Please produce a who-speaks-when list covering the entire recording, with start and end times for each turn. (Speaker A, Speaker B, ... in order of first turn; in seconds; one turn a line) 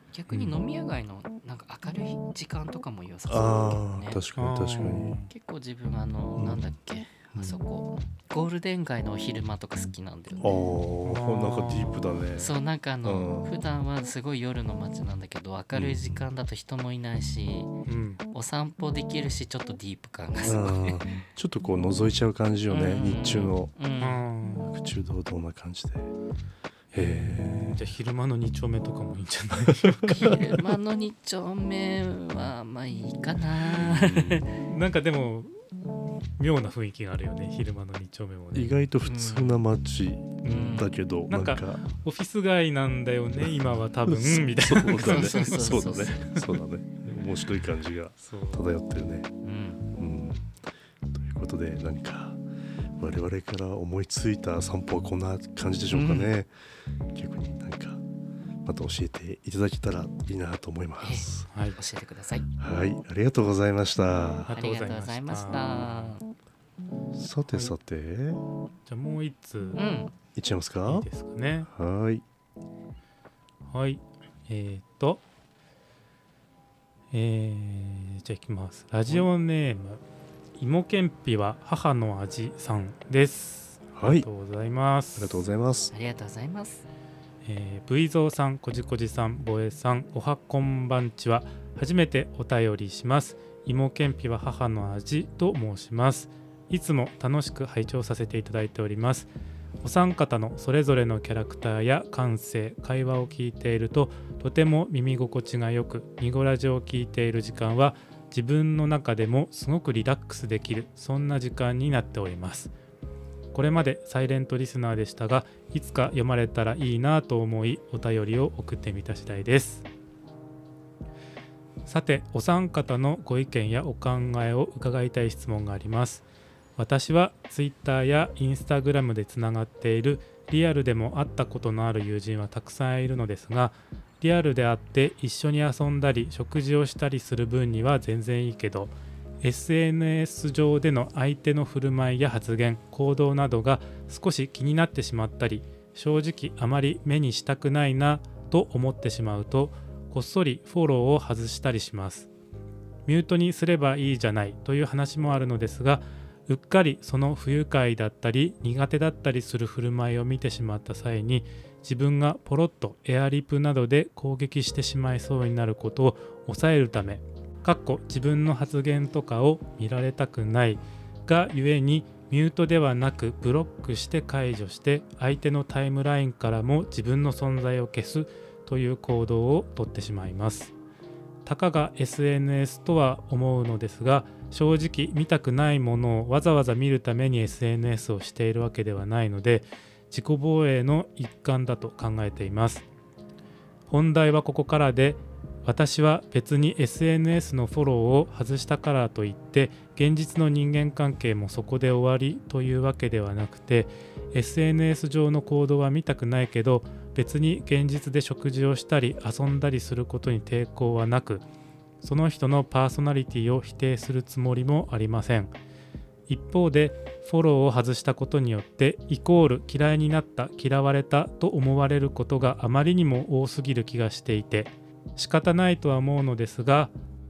Speaker A: 0.1-4.2
Speaker B: 0.3-0.6
Speaker B: 3.3-5.2
Speaker C: 4.4-5.3
Speaker A: 5.3-10.6
Speaker B: 6.4-6.7
Speaker B: 10.4-13.5
Speaker C: 11.0-12.0
Speaker A: 12.4-17.7
Speaker B: 15.7-16.2
Speaker C: 17.9-18.2
Speaker A: 18.3-21.1
Speaker B: 20.4-23.7
Speaker A: 22.7-24.2
Speaker C: 24.0-24.7
Speaker B: 24.6-26.1
Speaker B: 26.9-27.8
Speaker C: 26.9-30.4
Speaker B: 29.8-30.4
Speaker A: 30.1-34.6
Speaker B: 33.8-34.5
Speaker C: 34.6-35.5
Speaker C: 36.4-38.8
Speaker B: 38.5-41.8
Speaker A: 39.0-39.6
Speaker C: 40.4-46.6
Speaker A: 40.5-40.9
Speaker B: 43.4-49.3
Speaker A: 45.0-46.2
Speaker C: 48.2-48.6
Speaker A: 49.4-49.9
Speaker B: 50.0-50.5
Speaker B: 51.1-52.4
Speaker B: 53.0-56.5
Speaker A: 55.9-56.3
Speaker B: 57.1-58.0
Speaker B: 58.6-61.5
Speaker A: 61.0-62.5
Speaker C: 61.5-61.8
Speaker B: 62.6-64.5
Speaker C: 64.5-66.1
Speaker A: 64.5-66.3
Speaker B: 67.1-68.4
Speaker C: 67.5-67.7
Speaker C: 68.9-69.8
Speaker A: 69.8-70.1
Speaker B: 70.3-71.1
Speaker C: 70.9-71.7
Speaker B: 71.7-72.2
Speaker C: 73.7-75.2
Speaker C: 77.1-80.0
Speaker C: 80.6-85.4
Speaker B: 83.9-84.3
Speaker B: 85.2-85.9
Speaker A: 85.9-86.9
Speaker C: 87.4-99.3
Speaker C: 99.8-112.7
Speaker C: 113.5-119.9
Speaker C: 121.9-126.2
Speaker C: 126.8-152.3
Speaker C: 153.1-180.7
Speaker C: 181.5-192.8
Speaker C: 193.9-211.4
Speaker C: 212.0-215.5
Speaker C: 216.3-226.9